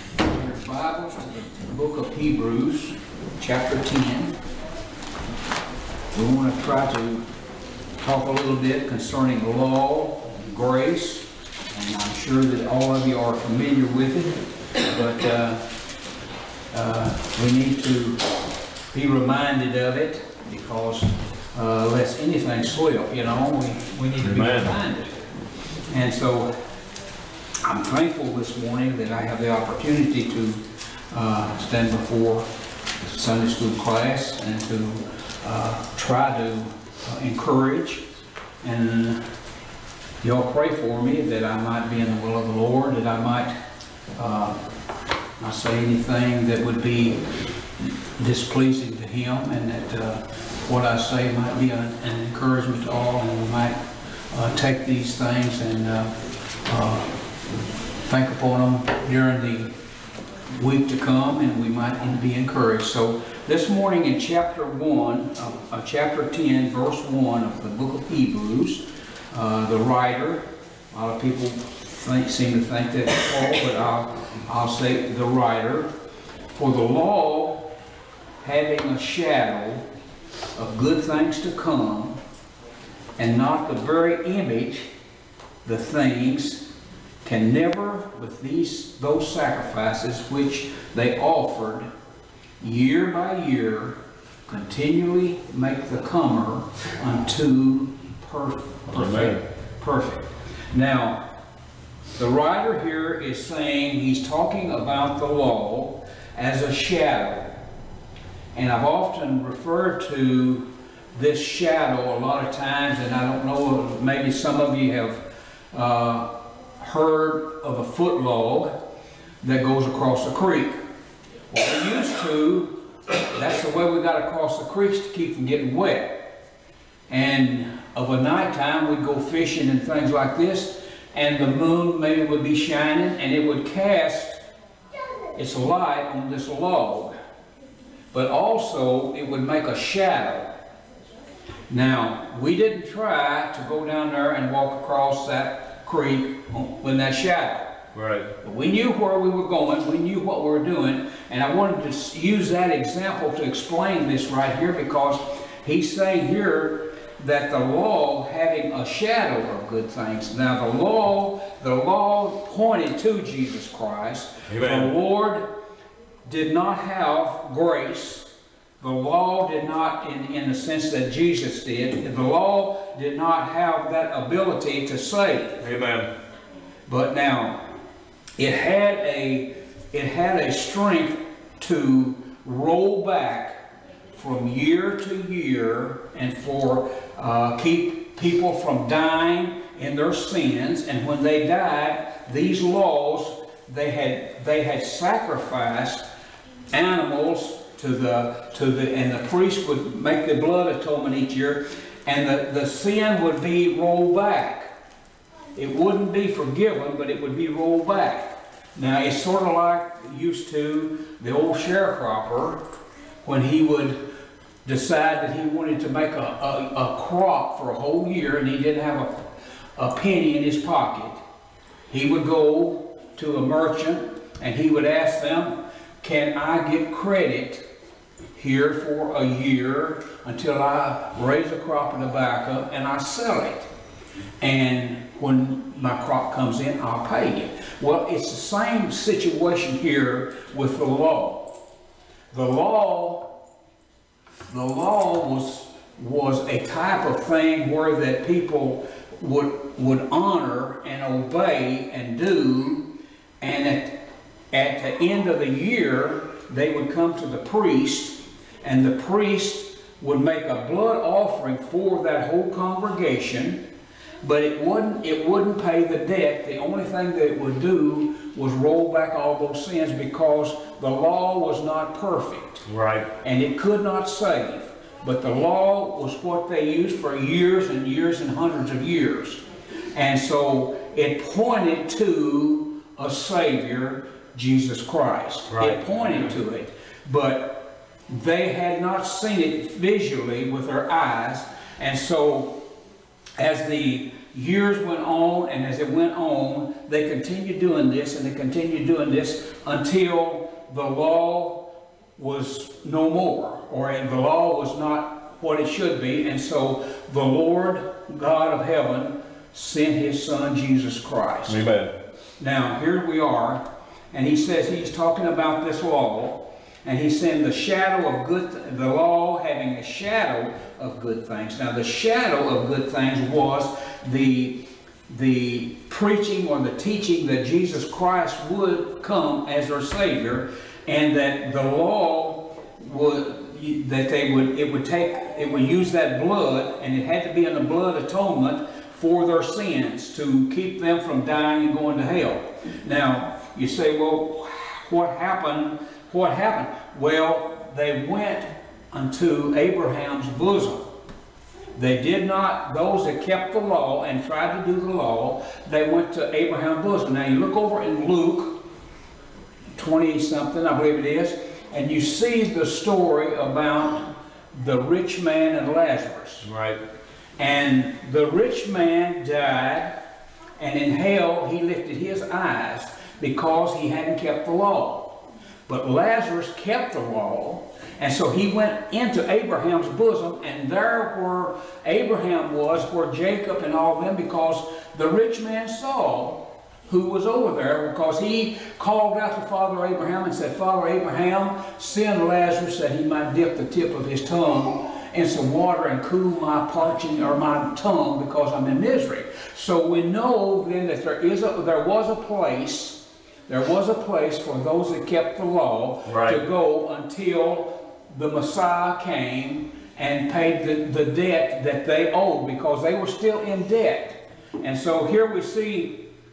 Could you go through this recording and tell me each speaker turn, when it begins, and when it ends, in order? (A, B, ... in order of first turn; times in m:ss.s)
0:00.2-0:04.4 A
0:06.1-0:07.2 A
0:08.0-0:15.6 A
0:16.7-0:18.2 A
0:18.9-0:25.2 A
0:24.2-0:24.7 B
0:25.9-0:26.5 A
0:27.6-0:32.5 A
0:33.0-0:38.0 A
0:38.6-0:39.2 A
0:40.2-0:43.5 A
0:44.2-0:44.6 A
0:45.4-0:47.2 A
0:47.8-0:53.8 A
0:54.3-0:56.1 A
0:56.6-0:57.2 A
0:58.1-0:59.7 A
1:00.6-1:15.9 A
1:16.5-1:17.7 A
1:18.4-1:19.8 A
1:20.6-1:22.2 A
1:23.2-1:24.9 A
1:25.6-1:26.7 A
1:27.2-1:31.9 A
1:32.6-1:41.2 A
1:38.9-1:39.4 B
1:42.2-1:47.5 A
1:48.6-1:55.2 A
1:55.7-1:56.3 A
1:56.8-1:58.7 A
1:59.4-2:00.8 A
2:01.5-2:02.8 A
2:03.3-2:06.2 A
2:07.1-2:14.4 A
2:15.4-2:17.1 A
2:18.1-2:20.5 A
2:21.7-2:27.7 A
2:27.9-2:28.3 B
2:28.4-2:45.4 A
2:44.5-2:44.9 B
2:46.2-2:48.3 A
2:48.8-2:55.6 A
2:55.6-2:56.1 B
2:56.9-2:57.6 A
2:58.4-3:03.6 A
3:04.2-3:16.0 A
3:16.7-3:24.7 A
3:25.6-3:32.6 A
3:33.2-3:34.0 A
3:34.7-3:39.1 A
3:39.8-3:41.2 A
3:41.9-3:47.6 A
3:48.4-3:53.7 A
3:54.4-4:01.4 A
4:02.3-4:03.3 A
4:04.5-4:12.8 A
4:13.4-4:14.0 A
4:14.5-4:23.6 A
4:24.2-4:32.6 A
4:32.7-4:33.1 B
4:33.2-4:39.4 A
4:39.9-4:52.6 A
4:45.5-4:46.3 B
4:53.4-5:01.6 A
5:02.2-5:11.6 A
5:11.5-5:11.9 B
5:12.4-5:24.6 A
5:25.1-5:50.9 A
5:51.8-5:58.6 A
5:59.8-6:06.5 A
6:06.4-6:06.8 B
6:07.4-6:10.0 A
6:10.6-6:15.1 A
6:15.7-6:56.0 A
6:46.1-6:46.4 B